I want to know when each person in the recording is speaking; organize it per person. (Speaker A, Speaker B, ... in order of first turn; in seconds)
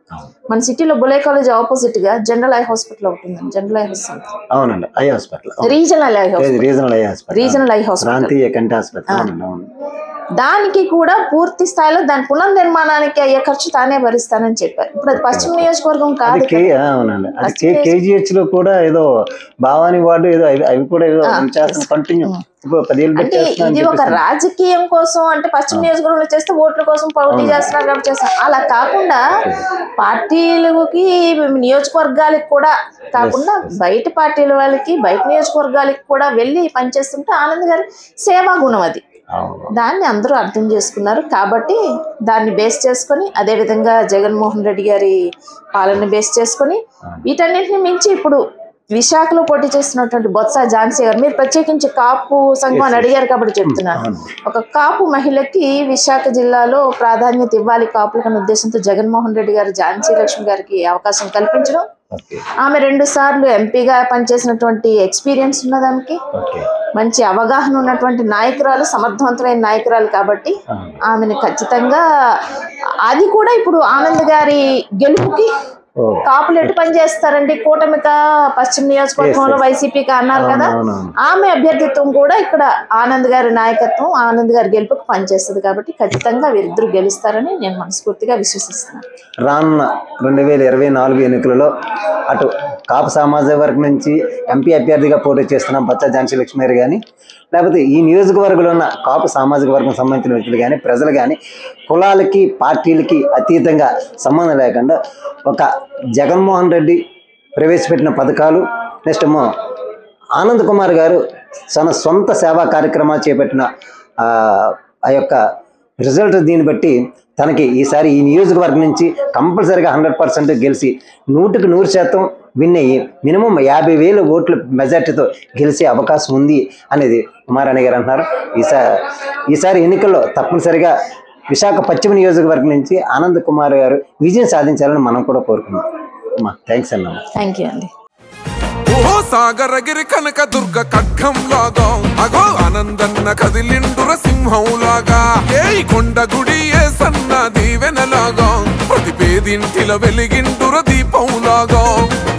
Speaker A: 0.5-4.3, 5.6-6.7, 7.3-8.3, 10.4-16.7, 17.4-17.9, 21.2-22.4, 23.2-29.3, 30.0-39.0, 39.7-45.2, 45.8-48.4, 48.9-61.9, 62.6-66.2, 66.9-72.5, 73.0-75.5, 76.2-89.0, 137.3-137.9
Speaker B: 4.5-5.8, 6.4-9.7, 15.1-15.7, 16.2-19.1, 19.6-24.2, 27.3-27.8, 29.4-29.6, 33.2-33.8, 39.3-39.7, 52.7-53.1, 53.6-54.3, 62.1-62.5, 66.3-66.7, 70.7-71.0, 76.0-76.7, 79.2-79.6, 80.3-81.1, 89.4-101.4, 101.9-107.0, 107.6-109.5, 110.3-113.7, 114.2-115.4, 116.0-130.9, 131.5-135.8, 136.4-137.2
Speaker C: 138.9-152.1